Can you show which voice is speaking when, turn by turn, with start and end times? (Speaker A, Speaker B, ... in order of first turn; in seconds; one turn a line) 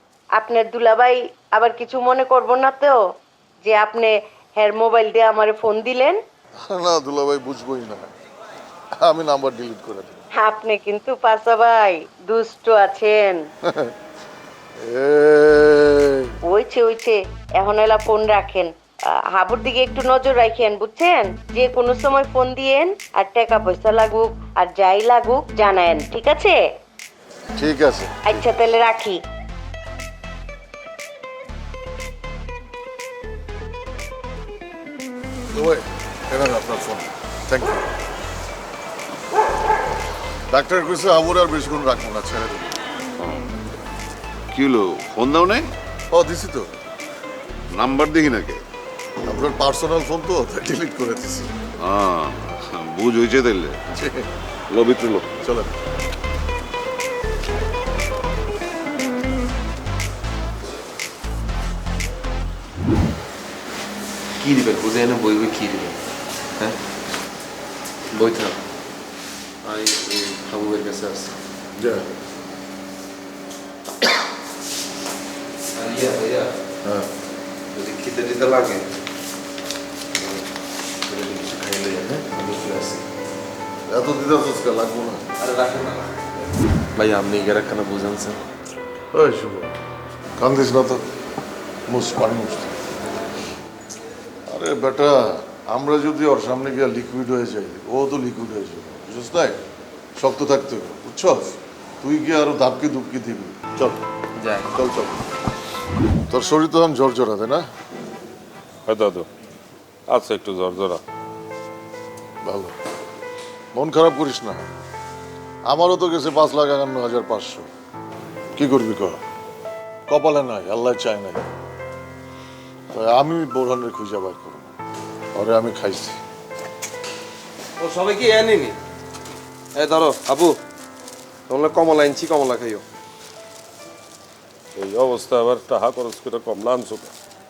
Speaker A: 0.4-3.0
Speaker A: 3.6-6.2
Speaker B: 6.7-8.1
Speaker B: 9.0-10.2
Speaker A: 10.4-13.4
Speaker B: 13.7-13.9
Speaker B: 14.8-16.4
Speaker A: 16.5-18.7
Speaker A: 19.3-26.6
Speaker B: 27.6-28.4
Speaker A: 28.3-29.2
Speaker B: 35.5-37.9
Speaker B: 40.5-42.7
Speaker C: 43.2-43.5
Speaker C: 44.5-45.7
Speaker B: 46.1-46.7
Speaker C: 47.7-48.6
Speaker B: 49.2-51.5
Speaker C: 51.8-53.8
Speaker B: 53.9-54.3
Speaker C: 54.7-55.3
Speaker B: 55.4-55.7
Speaker D: 64.4-66.0
Speaker D: 68.1-68.6
Speaker D: 69.6-71.3
Speaker B: 71.8-72.0
Speaker D: 75.7-76.5
Speaker D: 77.7-78.8
Speaker D: 81.1-83.0
Speaker B: 83.9-85.2
Speaker D: 85.4-86.2
Speaker D: 87.0-88.4
Speaker B: 89.1-89.7
Speaker B: 90.4-91.0
Speaker B: 91.9-92.7
Speaker B: 94.5-99.6
Speaker B: 100.2-104.0
Speaker D: 104.4-104.8
Speaker B: 104.7-105.2
Speaker B: 106.3-107.6
Speaker E: 108.9-109.3
Speaker E: 110.1-111.0
Speaker B: 112.5-112.7
Speaker B: 113.7-114.7
Speaker B: 115.7-117.7
Speaker B: 118.6-119.2
Speaker B: 120.1-121.5
Speaker B: 122.9-124.7
Speaker B: 125.3-126.2
Speaker D: 127.8-128.8
Speaker D: 129.8-130.6
Speaker D: 131.5-132.8
Speaker E: 134.8-137.1